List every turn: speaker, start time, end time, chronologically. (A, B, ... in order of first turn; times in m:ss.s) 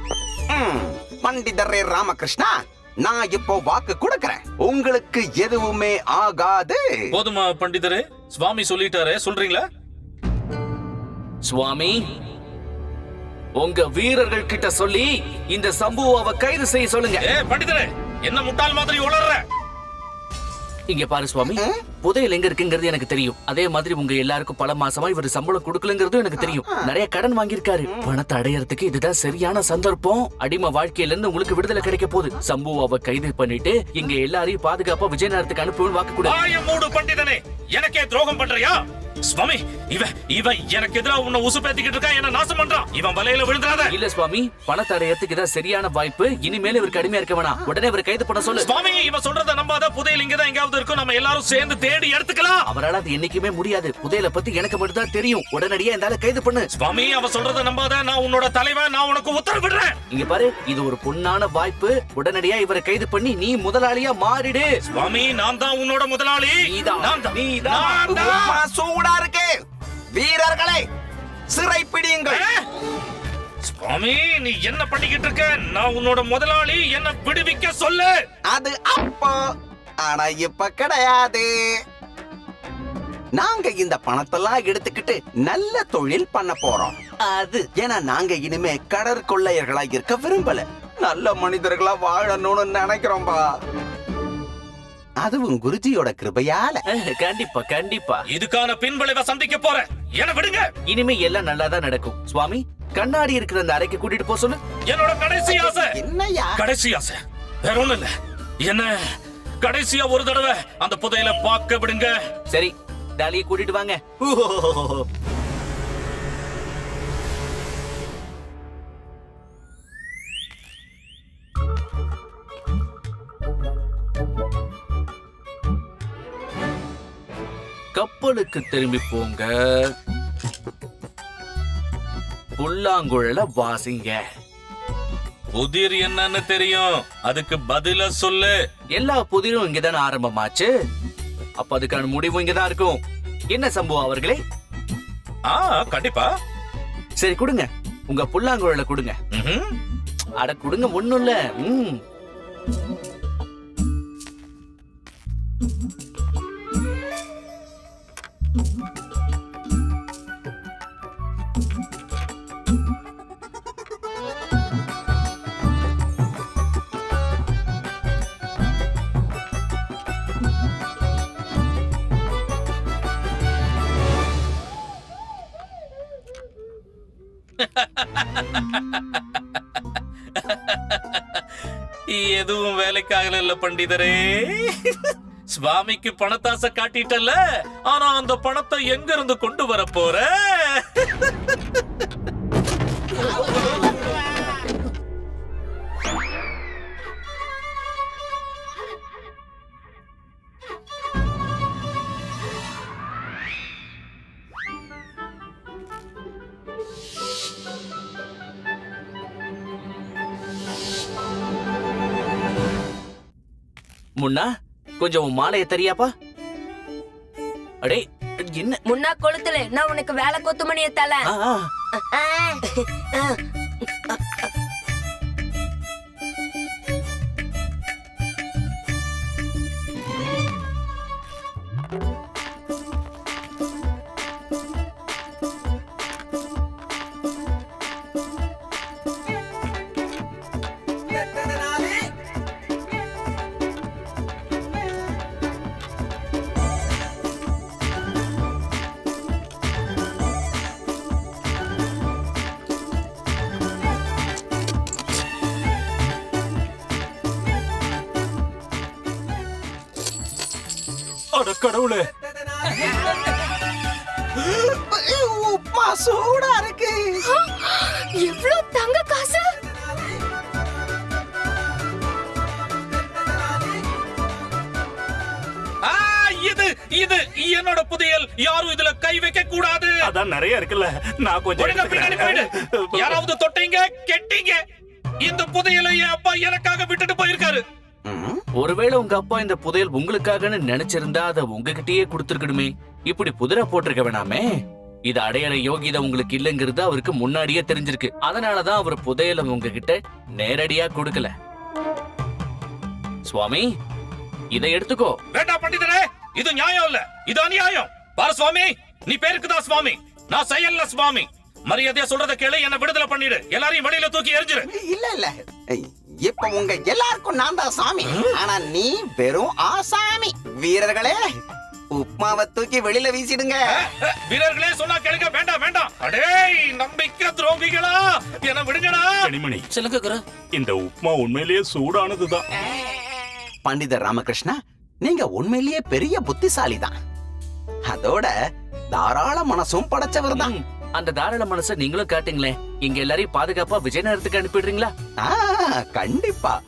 0:00.5-0:06.8 A
0:07.1-0:09.6 B
0:11.4-0:12.0 C
0:13.6-0:17.2 C
0:17.2-0:19.4 B
0:20.9-0:36.4 C
0:21.4-0:21.8 A
0:26.4-0:26.7 A
0:36.2-0:43.9 B
0:43.9-0:48.7 C
0:48.6-0:52.6 B
0:52.6-0:56.7 C
0:56.7-1:00.0 B
1:00.1-1:04.7 C
1:04.8-1:08.6 B
1:06.6-1:08.5 C
1:08.0-1:09.5 A
1:10.1-1:10.8 A
1:11.5-1:12.4 A
1:12.3-1:12.6 B
1:13.6-1:18.2 B
1:18.5-1:19.4 A
1:20.0-1:21.5 A
1:23.4-1:26.9 A
1:27.3-1:27.7 C
1:27.8-1:33.4 A
1:35.2-1:36.8 A
1:36.9-1:38.2 C
1:38.3-1:40.7 B
1:40.9-1:44.6 C
1:44.9-1:45.9 B
1:45.4-1:46.6 A
1:46.6-1:48.1 B
1:48.6-1:49.1 B
1:49.6-1:52.2 B
1:52.5-1:55.0 C
2:07.9-2:09.8 C
2:12.6-2:14.2 C
2:15.5-2:18.5 B
2:19.0-2:20.7 C
2:21.6-2:23.0 C
2:23.5-2:24.4 C
2:25.5-2:26.3 B
2:27.2-2:29.1 C
2:29.3-2:29.7 B
2:30.4-2:32.0 C
2:57.6-3:01.4 B
3:02.1-3:11.6 B
3:34.2-3:36.1 C
3:38.8-3:41.3 D
3:41.2-3:41.7 C
3:42.0-3:43.4 D
4:21.3-4:22.0 E
4:24.4-4:27.2 A
4:27.3-4:29.5 F
4:35.8-4:39.9 B
4:40.0-4:43.2 E
4:41.6-4:44.6 B
4:45.2-4:47.6 B
4:48.1-4:48.4 A
4:48.6-4:54.5 C
4:55.1-5:01.3 C
5:03.2-5:03.7 C
5:04.5-5:05.2 C
5:05.3-5:14.7 B
5:14.7-5:21.2 A
5:18.1-5:18.4 B
5:21.9-5:23.8 A
5:23.7-5:29.1 B
5:29.2-5:29.7 E
5:29.7-5:30.2 B
5:30.6-5:32.4 E
5:33.6-5:36.9 A
5:37.9-5:38.3 A
5:38.9-5:40.5 A
5:40.3-5:44.9 C
5:45.2-5:46.5 A